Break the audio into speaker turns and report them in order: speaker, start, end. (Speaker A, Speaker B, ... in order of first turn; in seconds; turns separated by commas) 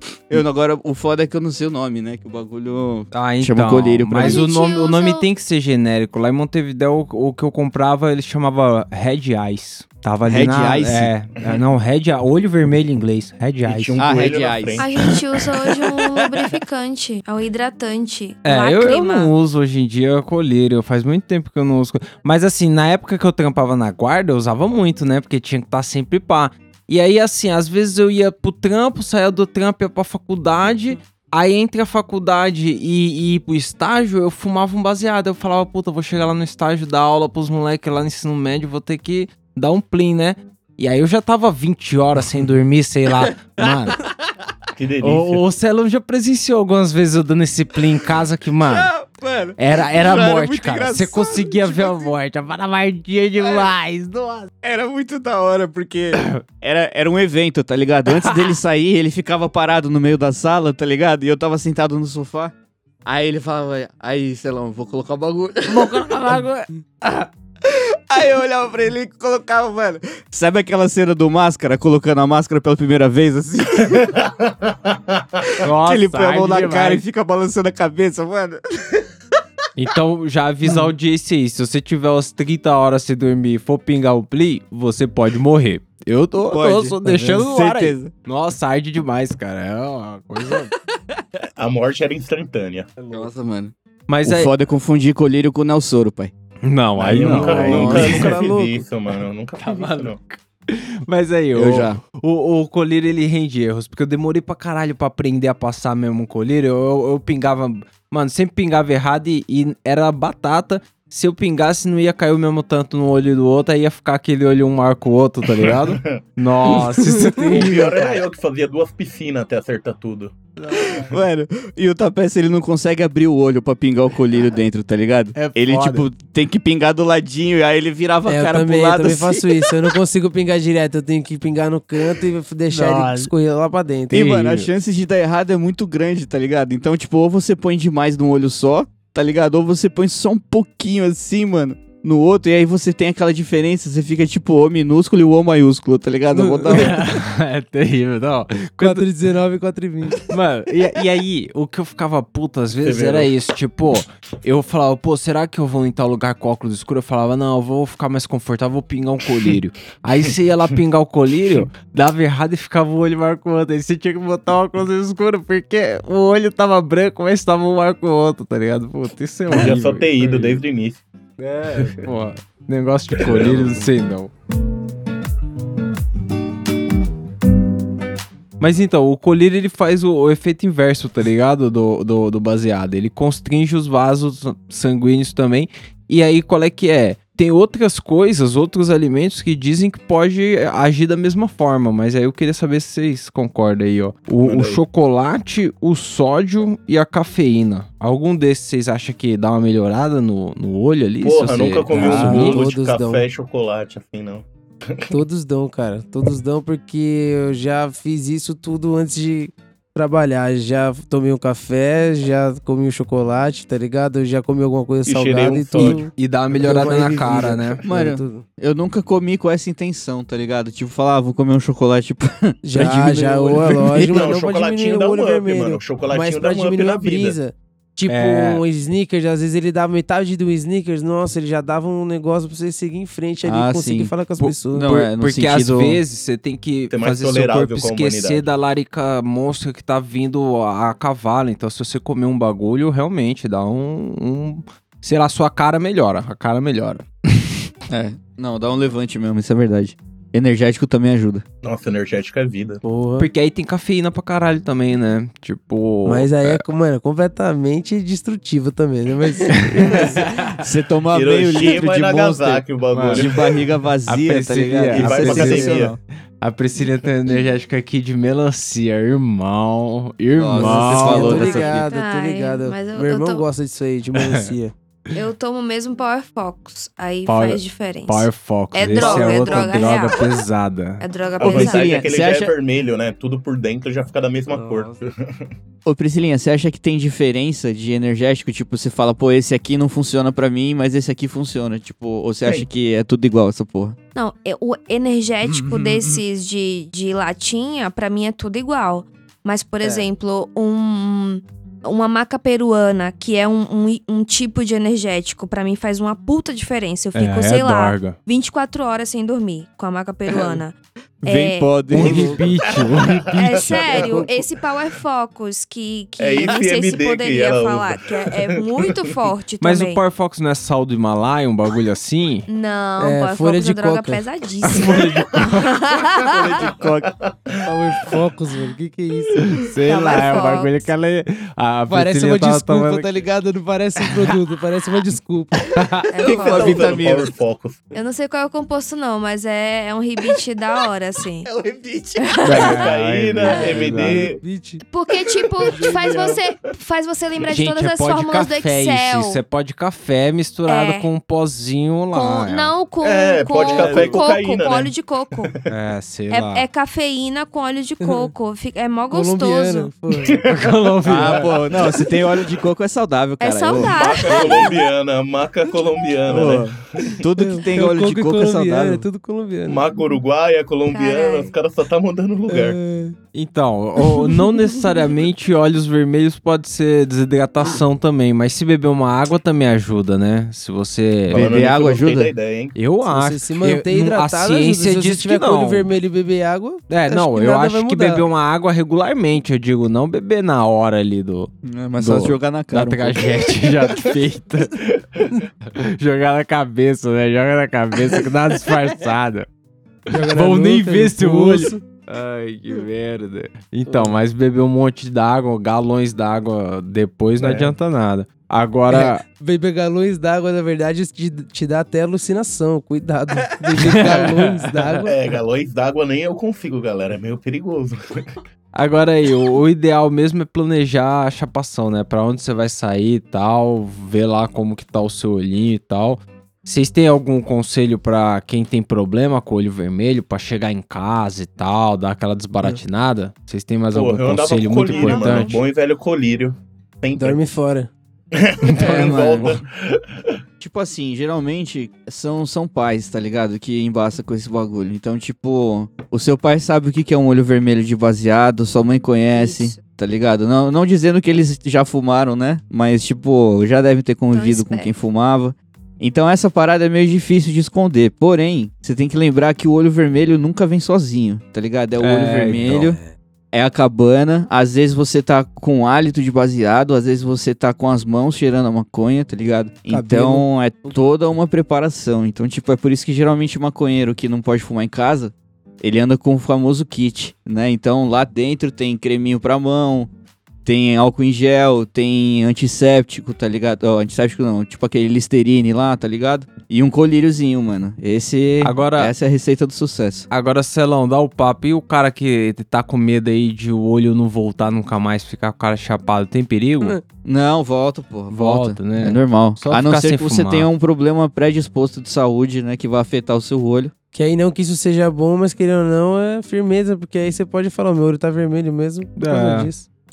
Speaker A: 0.3-4.5, Speaker B: 3.1-14.0, Speaker C: 4.2-5.3, Speaker A: 10.3-11.1, Speaker D: 13.7-14.9, Speaker A: 14.0-15.2, Speaker C: 14.8-19.3, Speaker B: 18.4-44.0, Speaker A: 43.6-44.3, Speaker D: 44.8-45.4, Speaker B: 45.0-48.9, Speaker A: 48.6-52.1, Speaker B: 49.6-54.5, Speaker A: 54.6-62.5, Speaker A: 63.1-66.0, Speaker B: 65.7-66.7, Speaker A: 67.0-74.3, Speaker D: 74.1-75.2, Speaker B: 75.6-77.0, Speaker A: 75.8-79.0, Speaker B: 79.8-90.7, Speaker A: 86.5-88.1, Speaker D: 91.6-92.9, Speaker B: 93.0-93.3, Speaker A: 93.1-96.3, Speaker B: 94.1-94.5, Speaker B: 96.6-98.4, Speaker D: 97.0-100.2, Speaker E: 97.2-98.8, Speaker A: 97.4-98.1, Speaker B: 99.6-118.2, Speaker A: 101.5-102.0, Speaker D: 115.6-116.2, Speaker E: 117.1-117.5, Speaker D: 117.4-120.3, Speaker B: 120.6-121.1, Speaker A: 120.8-129.7, Speaker B: 125.3-126.1, Speaker E: 128.3-134.2, Speaker B: 132.7-133.3, Speaker B: 134.1-134.7, Speaker A: 134.1-147.0, Speaker E: 146.3-146.9, Speaker B: 146.7-149.1, Speaker E: 148.8-150.3, Speaker B: 150.3-170.6, Speaker D: 152.8-153.3, Speaker D: 169.5-171.0, Speaker B: 171.4-174.3, Speaker D: 173.2-173.8, Speaker B: 178.6-202.6, Speaker D: 194.4-194.8, Speaker D: 201.2-205.1, Speaker E: 201.9-203.3, Speaker E: 205.1-218.4, Speaker D: 215.1-216.1, Speaker B: 215.8-217.8, Speaker A: 217.8-224.3, Speaker E: 222.6-234.9, Speaker D: 223.7-227.4, Speaker B: 228.1-228.6, Speaker A: 233.4-234.1, Speaker B: 234.4-247.7, Speaker A: 234.7-236.0, Speaker D: 236.9-238.4, Speaker A: 247.9-251.4, Speaker D: 251.6-252.8, Speaker E: 252.8-253.3, Speaker B: 253.2-256.6, Speaker E: 256.1-260.2, Speaker B: 259.5-260.6, Speaker A: 260.6-266.0, Speaker D: 261.1-263.6, Speaker B: 262.9-263.3, Speaker B: 264.1-265.9, Speaker D: 264.9-266.0, Speaker B: 266.4-271.6, Speaker A: 270.4-271.9, Speaker E: 270.5-274.7, Speaker C: 271.3-273.4, Speaker B: 274.2-274.5, Speaker C: 275.1-280.4, Speaker B: 277.3-281.0, Speaker E: 279.0-279.9, Speaker D: 279.1-279.9, Speaker C: 281.0-281.9, Speaker D: 281.4-285.5, Speaker A: 281.4-282.5, Speaker E: 284.5-285.0, Speaker A: 285.9-293.9, Speaker C: 294.1-312.1, Speaker E: 299.8-300.1, Speaker B: 307.1-308.2, Speaker A: 311.2-312.4, Speaker B: 311.9-313.9, Speaker E: 312.0-312.4, Speaker D: 312.6-314.2, Speaker C: 313.4-320.0, Speaker E: 313.9-314.4, Speaker D: 316.2-319.1, Speaker B: 319.6-322.4, Speaker C: 322.5-326.4, Speaker E: 323.0-324.2, Speaker B: 324.6-325.8, Speaker A: 326.1-327.1, Speaker D: 327.0-327.7, Speaker E: 327.7-329.7, Speaker B: 329.6-333.1, Speaker C: 329.9-330.8, Speaker E: 331.9-335.7, Speaker B: 334.0-334.4, Speaker B: 335.8-336.1, Speaker C: 336.1-337.0, Speaker A: 336.2-337.3, Speaker D: 336.3-337.9, Speaker C: 337.9-341.5, Speaker A: 341.4-342.8, Speaker C: 342.2-342.8, Speaker B: 342.4-344.3, Speaker D: 342.5-344.4, Speaker C: 343.4-343.9, Speaker E: 344.4-344.8, Speaker C: 344.9-349.4, Speaker A: 345.6-346.4, Speaker D: 345.7-346.4, Speaker B: 347.5-352.7, Speaker C: 350.7-351.1, Speaker C: 352.1-355.5, Speaker D: 353.0-355.7, Speaker E: 353.6-354.2, Speaker B: 355.7-356.7, Speaker C: 356.3-359.9, Speaker E: 358.0-358.3, Speaker E: 359.1-360.4, Speaker D: 360.2-361.5, Speaker B: 360.4-361.5, Speaker A: 361.1-364.4, Speaker C: 363.4-364.8, Speaker D: 363.8-367.2, Speaker A: 366.3-369.0, Speaker E: 367.4-369.9, Speaker D: 369.7-372.8, Speaker C: 370.9-371.5, Speaker E: 372.5-373.1, Speaker B: 373.3-381.5, Speaker D: 381.3-382.8, Speaker A: 381.3-382.4, Speaker B: 382.8-385.9, Speaker E: 383.1-388.2, Speaker B: 386.9-394.9, Speaker A: 391.6-393.5, Speaker B: 395.6-399.5, Speaker B: 400.1-409.2, Speaker E: 400.1-401.8, Speaker E: 403.9-404.1, Speaker D: 407.4-407.7, Speaker E: 408.9-415.2, Speaker B: 413.8-415.0, Speaker D: 415.1-418.3, Speaker B: 418.8-435.6, Speaker D: 433.9-437.4, Speaker C: 434.9-435.6, Speaker E: 437.2-437.9, Speaker D: 438.3-440.4, Speaker B: 438.6-439.6, Speaker A: 438.8-439.6, Speaker A: 440.6-463.0, Speaker C: 449.3-449.8, Speaker C: 454.3-454.9, Speaker B: 462.0-462.8, Speaker E: 462.7-463.1, Speaker A: 463.5-480.1, Speaker E: 469.9-470.9, Speaker A: 480.6-490.3, Speaker B: 488.6-489.1, Speaker B: 490.3-497.0, Speaker A: 497.2-503.9, Speaker B: 498.3-500.7, Speaker E: 504.1-509.9, Speaker B: 509.2-509.7